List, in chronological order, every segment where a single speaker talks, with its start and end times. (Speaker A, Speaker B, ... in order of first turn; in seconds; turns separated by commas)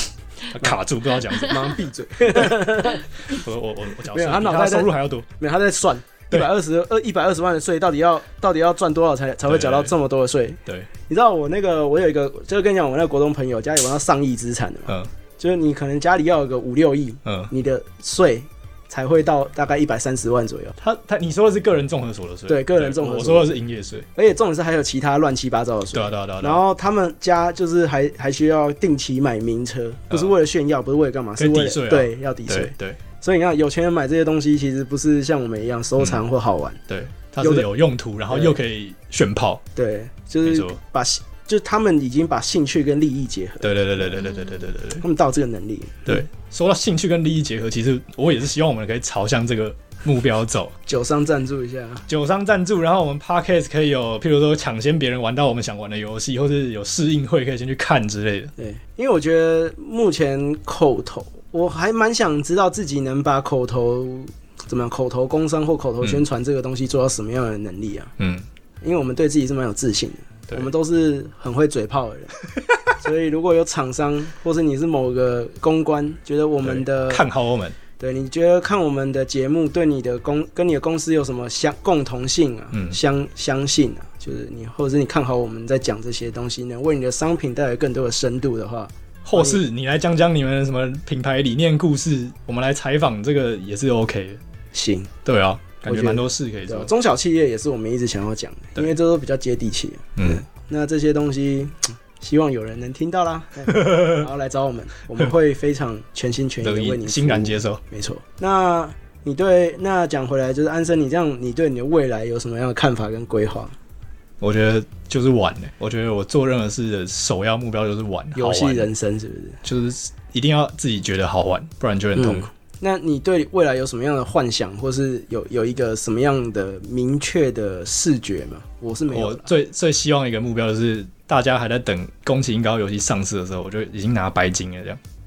Speaker A: 0.5-5.3, Speaker B: 1.3-3.0, Speaker B: 4.1-20.8, Speaker A: 9.4-9.9, Speaker A: 17.2-17.5, Speaker A: 20.8-24.1, Speaker B: 22.5-23.6, Speaker B: 24.1-36.8, Speaker A: 25.9-26.6, Speaker A: 31.4-33.0, Speaker A: 36.9-39.6, Speaker B: 37.4-37.7, Speaker B: 38.3-38.6, Speaker B: 39.7-44.2, Speaker A: 40.4-40.8, Speaker A: 43.6-45.0, Speaker B: 45.0-46.2, Speaker A: 46.1-50.8, Speaker B: 50.9-52.0, Speaker A: 52.1-58.5, Speaker B: 58.6-68.1, Speaker A: 68.2-68.5, Speaker B: 68.8-72.3, Speaker B: 73.0-77.2, Speaker A: 76.6-77.8, Speaker B: 78.0-89.6, Speaker A: 82.7-83.0, Speaker A: 89.2-94.4, Speaker B: 94.7-95.1, Speaker A: 95.2-96.9, Speaker B: 95.8-113.7, Speaker A: 100.2-100.4, Speaker A: 103.7-104.2, Speaker A: 106.6-107.8, Speaker A: 114.4-118.9, Speaker B: 118.3-119.6, Speaker A: 119.6-122.5, Speaker B: 122.1-129.5, Speaker A: 129.1-135.0